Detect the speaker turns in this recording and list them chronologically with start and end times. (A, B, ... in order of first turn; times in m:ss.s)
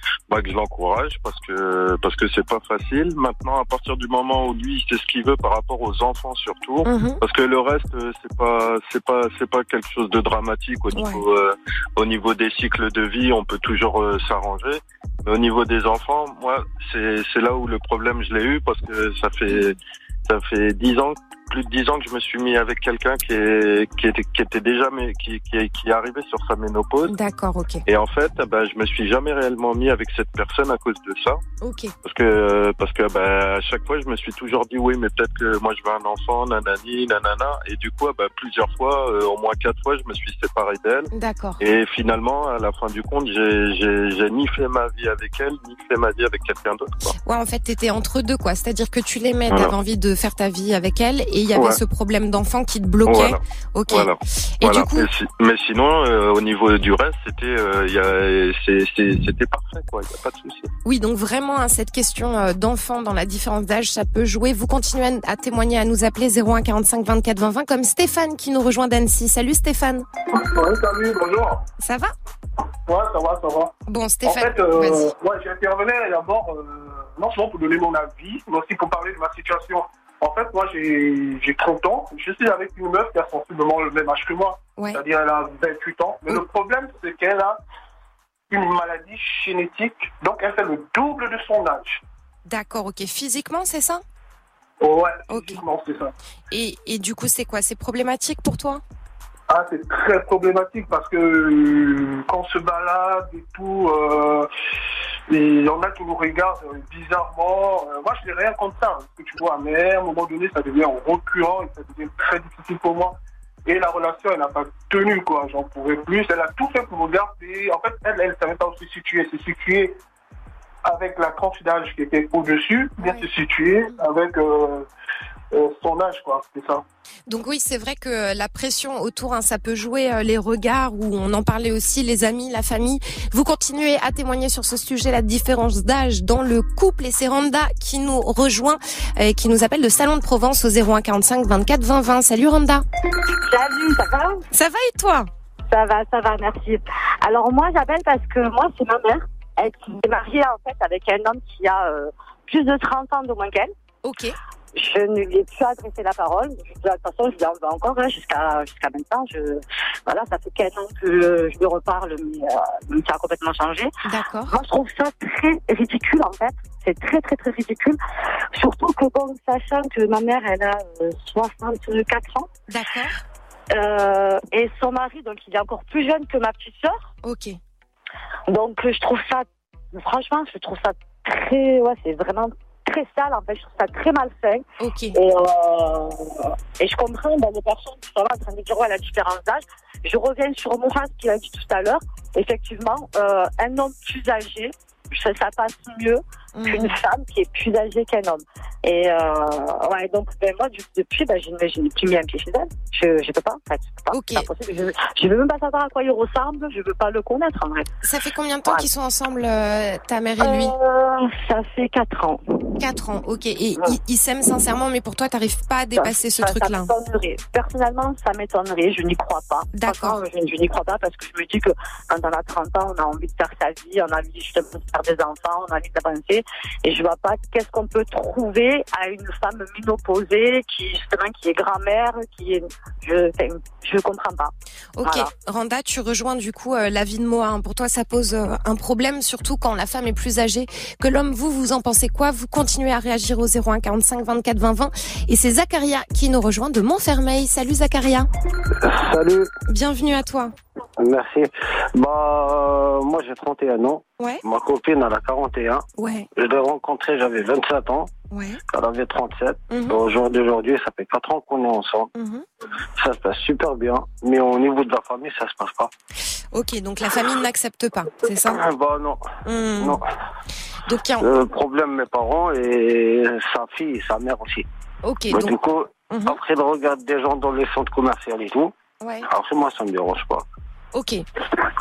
0:00.3-0:27.1 A
0:06.8-0:07.2 B
0:10.9-0:11.2 B
0:19.5-0:19.7 B
0:27.1-0:27.8 B
0:27.9-0:31.4 A
0:31.6-0:31.9 B
0:32.0-0:41.1 A
0:41.1-0:41.6 B
0:41.6-0:47.1 A
0:47.2-0:55.1 B
0:49.5-0:49.7 A
0:51.5-0:51.8 A
0:53.0-1:00.7 A
1:00.8-1:10.0 B
1:10.3-1:11.6 C
1:11.8-1:12.1 B
1:12.9-1:13.7 C
1:13.8-1:15.1 B
1:14.2-1:27.6 C
1:24.8-1:25.0 B
1:28.5-1:32.0 C
1:32.4-1:34.0 B
1:34.8-1:36.1 C
1:35.3-1:35.6 B
1:36.5-1:38.8 B
1:39.5-1:44.5 C
1:45.3-1:53.1 C
1:53.6-2:00.0 C
2:00.8-2:04.9 C
2:03.0-2:03.3 B
2:05.5-2:06.8 C
2:07.3-2:22.8 B
2:23.4-2:24.4 D
2:24.5-2:25.3 B
2:25.7-2:33.7 D
2:34.0-2:34.4 B
2:34.7-2:43.9 D
2:44.0-2:44.5 B
2:44.5-2:48.0 D
2:48.5-2:52.5 D
2:52.7-2:53.2 B
2:53.7-2:57.0 D
2:57.2-2:57.6 B
2:58.5-3:27.9 D
3:04.8-3:05.2 B
3:16.5-3:17.0 B
3:24.1-3:24.5 B
3:28.0-3:30.7 B
3:30.4-3:32.4 D
3:32.8-3:36.9 B
3:36.0-3:55.3 D
3:39.7-3:40.2 B
3:55.0-4:08.3 B
4:08.8-4:09.5 E
4:09.7-4:10.5 B
4:11.0-4:18.1 E
4:16.0-4:16.3 B
4:18.3-4:18.6 B
4:18.7-4:22.1 E
4:19.7-4:20.0 B
4:22.1-4:22.4 B
4:23.0-4:25.9 E
4:26.5-4:28.6 B
4:28.4-4:30.0 E
4:29.4-4:30.0 B
4:30.8-4:31.2 B
4:31.2-4:34.6 E
4:35.0-4:35.5 B
4:35.3-4:38.7 E
4:36.1-4:36.4 B
4:39.0-4:39.3 B
4:39.2-4:40.4 E
4:40.9-4:41.2 B